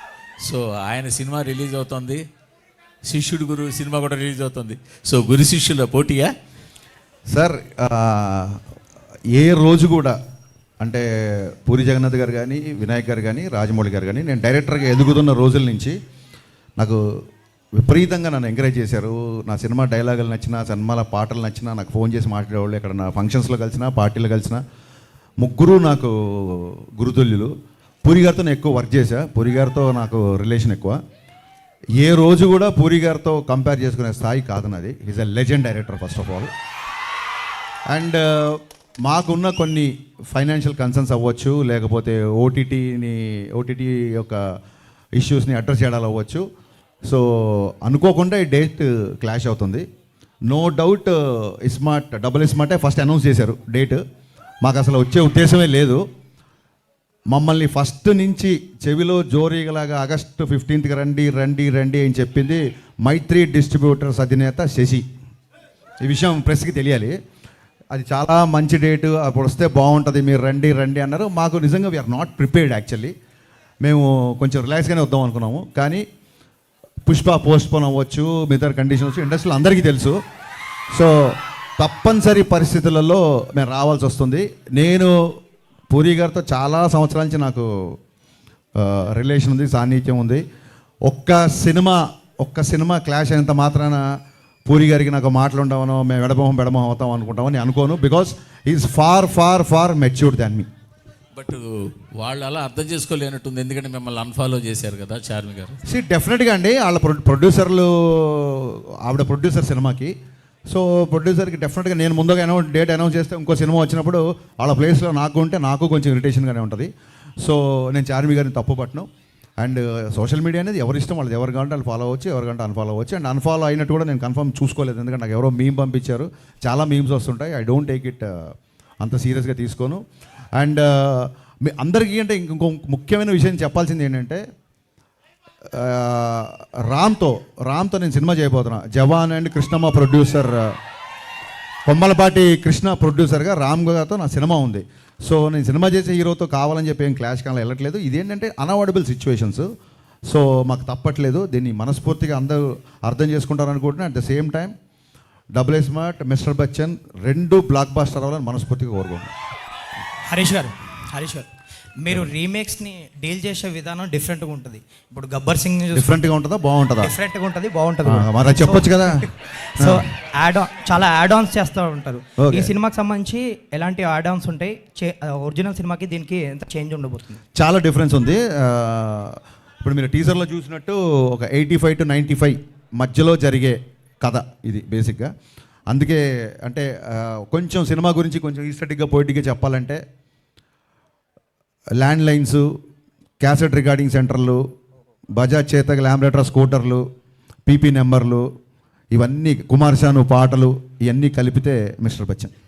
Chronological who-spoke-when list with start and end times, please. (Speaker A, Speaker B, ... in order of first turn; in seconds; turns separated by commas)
Speaker A: 0.4-2.2, Speaker A: 3.0-6.3, Speaker B: 7.3-8.6, Speaker B: 9.3-10.2, Speaker B: 10.8-16.0, Speaker B: 17.8-24.6, Speaker B: 25.4-27.5, Speaker B: 28.0-31.0, Speaker B: 32.0-36.5, Speaker B: 37.9-44.5, Speaker B: 45.1-46.5, Speaker B: 47.0-49.8, Speaker B: 50.5-54.0, Speaker B: 54.6-56.0, Speaker B: 57.3-65.0, Speaker B: 66.0-67.1, Speaker B: 67.9-73.1, Speaker B: 73.8-76.0, Speaker B: 77.0-80.2, Speaker B: 80.9-85.3, Speaker B: 85.9-87.9, Speaker B: 88.8-90.4, Speaker B: 91.0-94.0, Speaker B: 94.7-100.7, Speaker A: 101.3-105.8, Speaker B: 105.8-110.1, Speaker B: 110.7-116.9, Speaker B: 117.4-119.1, Speaker B: 119.6-130.0, Speaker B: 130.6-134.4, Speaker B: 135.7-140.7, Speaker B: 141.8-149.7, Speaker B: 150.3-154.7, Speaker B: 155.5-159.3, Speaker C: 160.2-161.5, Speaker C: 162.0-166.2, Speaker B: 165.9-167.1, Speaker C: 167.0-177.4, Speaker B: 168.0-169.3, Speaker B: 172.4-172.7, Speaker B: 177.5-185.3, Speaker B: 185.9-190.0, Speaker B: 192.0-192.7, Speaker B: 193.4-194.6, Speaker B: 195.3-197.0, Speaker B: 197.7-198.5, Speaker B: 199.1-202.5